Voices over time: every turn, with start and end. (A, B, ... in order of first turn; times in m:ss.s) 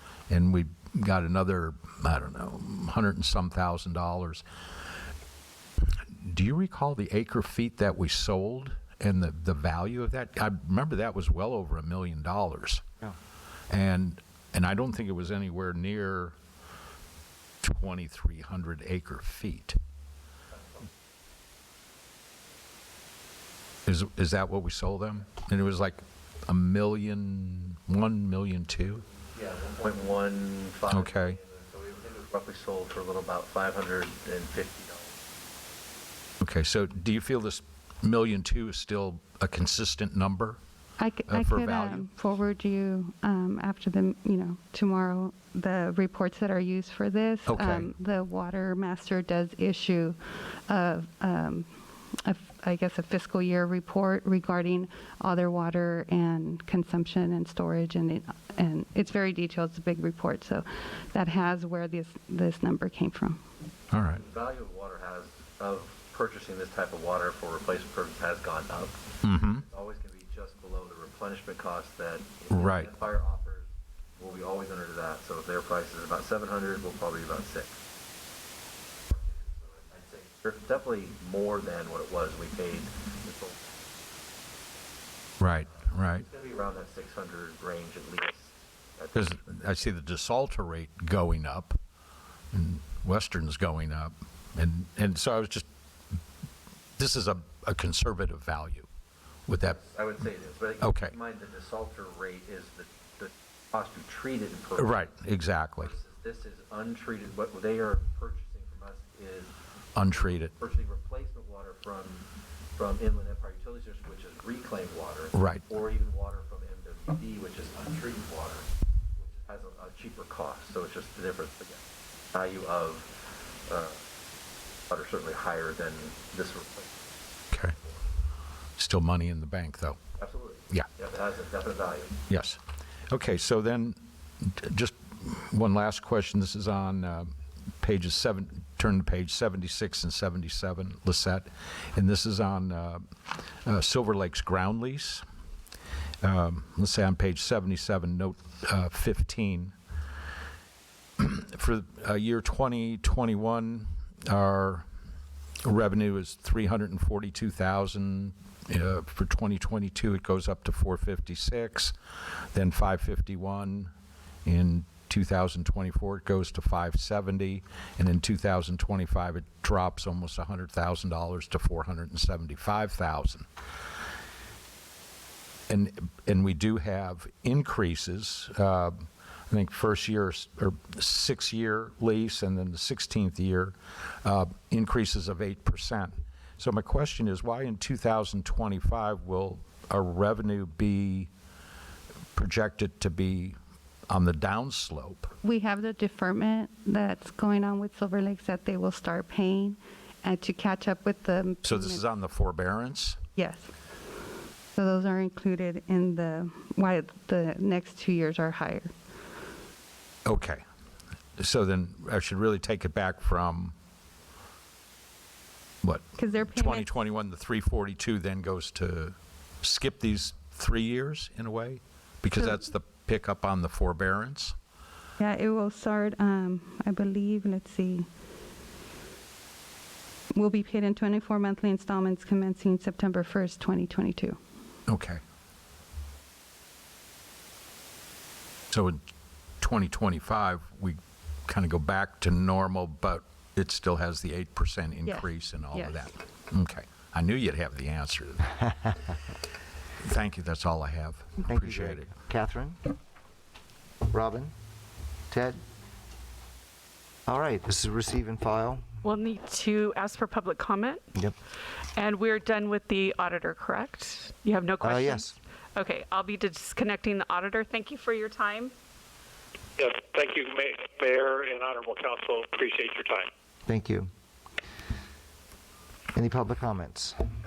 0:00.3-0:04.4 A
0:06.1-0:12.8 A
0:13.7-0:16.3 A
0:17.6-0:19.8 A
0:23.8-0:29.0 A
0:29.3-0:35.2 B
0:30.9-0:31.4 A
0:36.4-0:40.6 A
0:41.0-0:51.7 C
0:41.3-0:42.1 A
0:47.4-0:47.9 A
0:52.2-1:03.4 C
1:03.9-1:04.2 A
1:04.1-1:09.0 B
1:09.2-1:09.6 A
1:09.6-1:17.8 B
1:12.5-1:12.9 A
1:19.1-1:23.9 B
1:25.4-1:26.2 A
1:26.1-1:29.3 B
1:29.1-1:31.8 A
1:32.5-1:35.7 A
1:37.0-1:38.9 A
1:39.5-1:39.8 A
1:39.6-1:45.1 B
1:40.8-1:41.1 A
1:44.8-1:45.9 A
1:45.8-2:03.2 B
1:50.0-1:50.5 A
1:55.3-1:55.7 A
2:03.7-2:04.0 B
2:04.9-2:07.2 B
2:08.8-2:10.0 A
2:10.2-2:12.2 B
2:12.3-2:25.2 A
2:26.2-2:29.7 A
2:31.2-2:34.9 A
2:35.6-2:41.9 A
2:42.5-2:43.9 A
2:44.4-2:53.4 A
2:55.7-3:11.3 A
3:12.4-3:13.6 A
3:14.1-3:15.3 A
3:15.4-3:22.0 C
3:21.6-3:23.2 A
3:23.4-3:23.7 C
3:24.7-3:28.9 C
3:30.2-3:30.6 A
3:31.4-3:33.7 A
3:35.8-3:44.6 A
3:36.2-3:36.8 C
3:45.2-3:48.1 C
3:50.3-3:54.4 C
3:54.9-3:55.2 A
3:58.7-3:59.0 A
3:59.6-4:08.6 A
4:05.0-4:06.0 C
4:10.0-4:12.1 A
4:11.4-4:12.9 D
4:14.0-4:14.5 D
4:15.3-4:15.6 D
4:17.2-4:18.8 D
4:19.0-4:21.0 E
4:22.0-4:28.7 E
4:24.8-4:25.3 D
4:29.8-4:33.3 F
4:33.6-4:34.1 D
4:36.1-4:37.2 D